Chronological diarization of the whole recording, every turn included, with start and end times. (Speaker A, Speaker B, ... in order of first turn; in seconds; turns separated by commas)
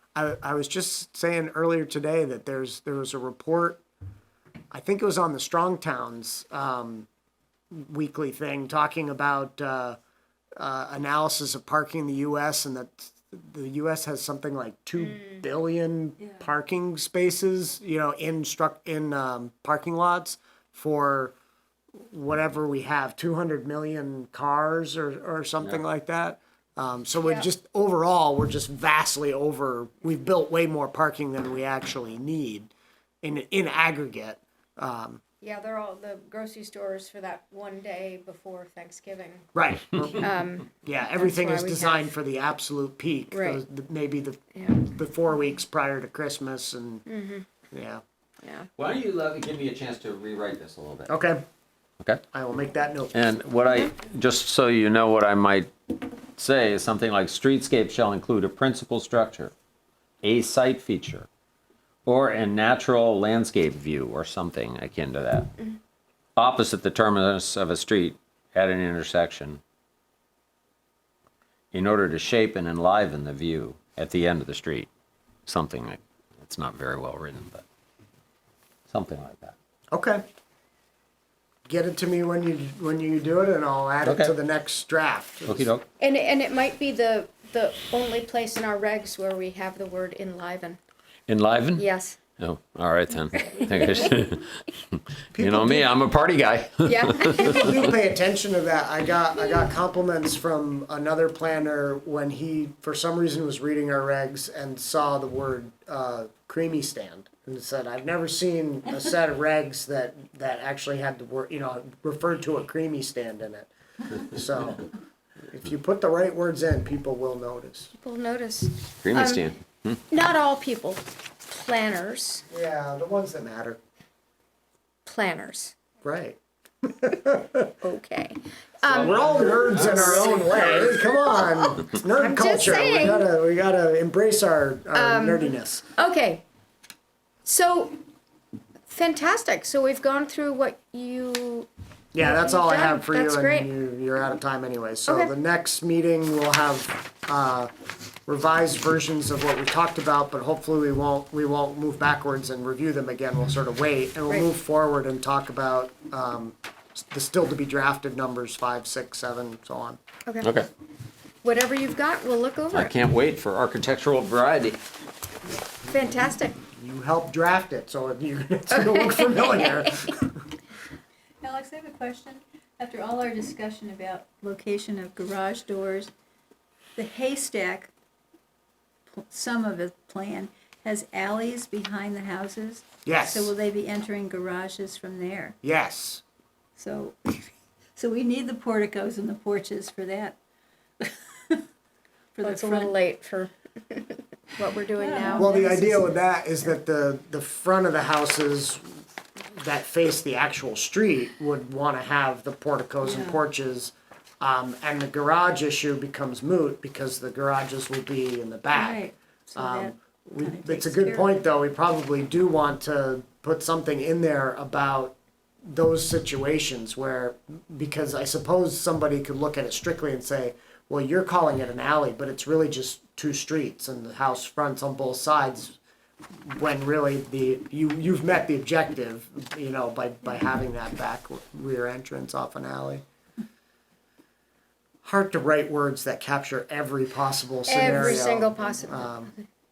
Speaker A: 0.1-3.8, Speaker A: 4.7-7.1, Speaker A: 7.7-10.0, Speaker A: 10.6-21.3, Speaker B: 15.0-15.4, Speaker C: 16.2-16.5, Speaker A: 22.1-32.7, Speaker B: 27.2-27.5, Speaker A: 33.2-35.2, Speaker B: 35.4-39.5, Speaker A: 39.5-47.1, Speaker B: 40.2-42.1, Speaker B: 43.3-43.6, Speaker B: 44.5-44.9, Speaker B: 47.1-47.5, Speaker A: 47.7-48.0, Speaker B: 48.4-48.7, Speaker D: 48.8-51.1, Speaker A: 51.1-51.4, Speaker A: 52.3-53.2, Speaker D: 53.1-59.5, Speaker D: 60.2-61.3, Speaker D: 62.0-65.6, Speaker D: 66.3-69.6, Speaker D: 71.7-74.9, Speaker D: 75.5-77.6, Speaker D: 78.9-79.5, Speaker A: 79.9-80.2, Speaker A: 81.7-85.7, Speaker D: 84.0-84.3, Speaker D: 85.5-85.8, Speaker B: 86.0-90.8, Speaker D: 91.3-91.8, Speaker B: 91.7-92.2, Speaker D: 92.4-94.8, Speaker B: 93.5-94.0, Speaker A: 95.3-95.9, Speaker D: 95.3-97.8, Speaker B: 96.8-97.7, Speaker A: 97.4-114.9, Speaker A: 115.5-117.9, Speaker B: 118.0-119.5, Speaker D: 119.0-120.0, Speaker B: 120.1-122.4, Speaker A: 122.5-123.8, Speaker B: 125.0-125.8, Speaker A: 126.0-126.4, Speaker A: 126.9-127.7, Speaker B: 127.8-130.8, Speaker D: 128.8-131.0, Speaker A: 128.9-135.9, Speaker B: 132.2-133.3, Speaker B: 134.9-136.4, Speaker B: 137.4-138.0, Speaker B: 138.9-141.7, Speaker A: 142.1-147.7, Speaker B: 142.2-143.7, Speaker B: 145.1-145.3, Speaker A: 148.2-160.0, Speaker D: 160.4-160.7, Speaker B: 161.4-162.9, Speaker D: 162.7-164.8, Speaker B: 165.8-166.6, Speaker A: 166.7-170.3, Speaker C: 171.4-176.1, Speaker C: 176.9-177.9, Speaker C: 179.1-185.6, Speaker A: 183.0-183.5, Speaker A: 185.6-186.2, Speaker C: 186.8-190.4, Speaker C: 191.0-191.6, Speaker C: 192.3-193.0, Speaker B: 192.4-195.6, Speaker C: 195.0-196.1, Speaker A: 195.3-199.0, Speaker A: 199.5-225.8, Speaker C: 203.0-203.4, Speaker C: 208.7-211.4, Speaker A: 226.4-233.0, Speaker A: 235.0-239.3, Speaker B: 237.7-239.2